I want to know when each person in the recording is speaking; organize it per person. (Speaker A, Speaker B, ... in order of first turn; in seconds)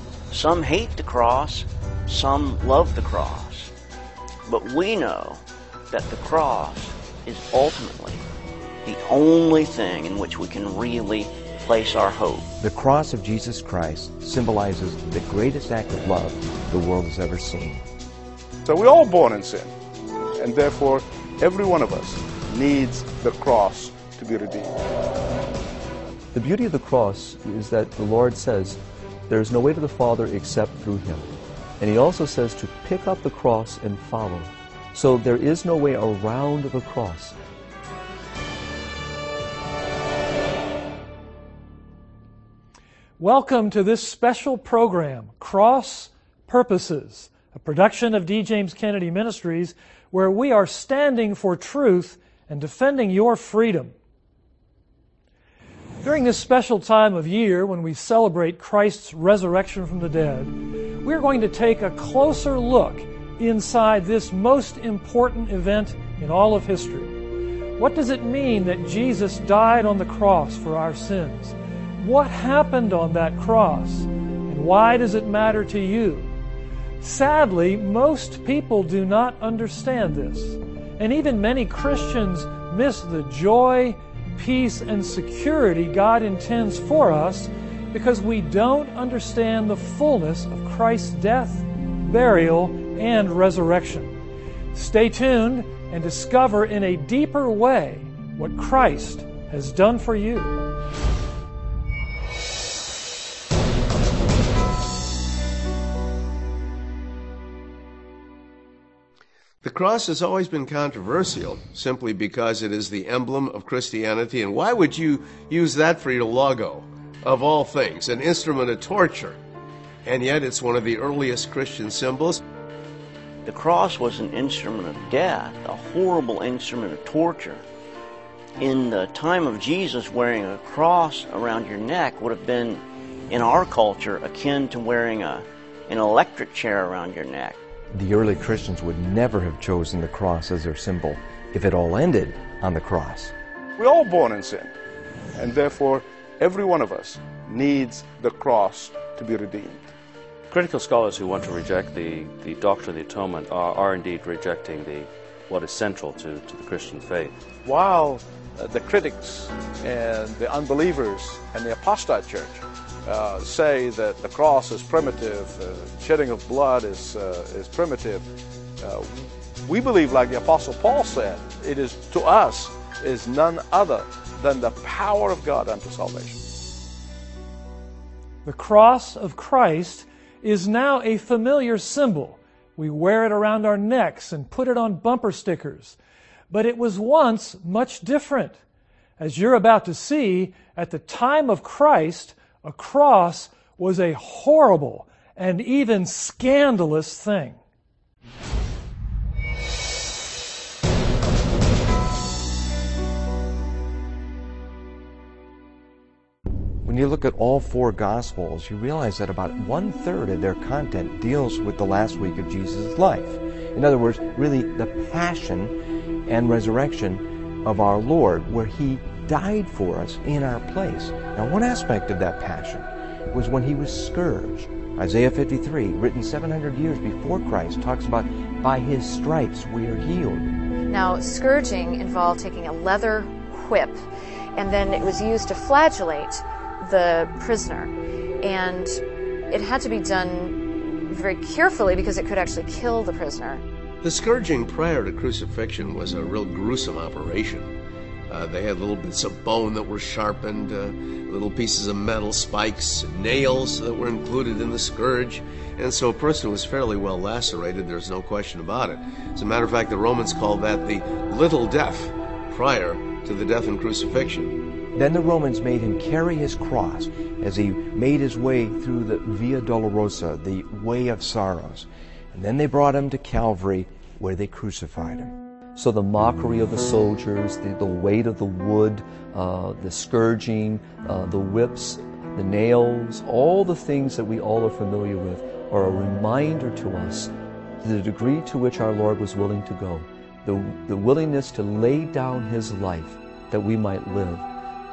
Speaker A: 0.3-3.7, 4.5-8.2, 8.8-12.4, 123.5-127.6, 128.6-137.6
Speaker B: 12.6-17.8, 137.9-143.3, 206.8-215.7, 216.3-230.5, 264.9-275.3
Speaker C: 18.6-19.7, 20.4-24.7, 143.8-144.7, 145.4-149.9, 157.6-168.2, 168.8-176.4
Speaker D: 26.3-37.4, 275.7-287.3, 287.8-294.4
Speaker E: 43.2-53.9, 56.0-67.2, 67.8-76.3, 77.0-94.2, 94.7-100.5, 178.4-185.9, 186.5-188.6, 189.2-197.6
Speaker F: 109.6-119.4, 120.0-122.4, 244.0-247.7, 248.3-264.5
Speaker G: 150.5-157.3
Speaker H: 230.9-234.0, 234.5-243.6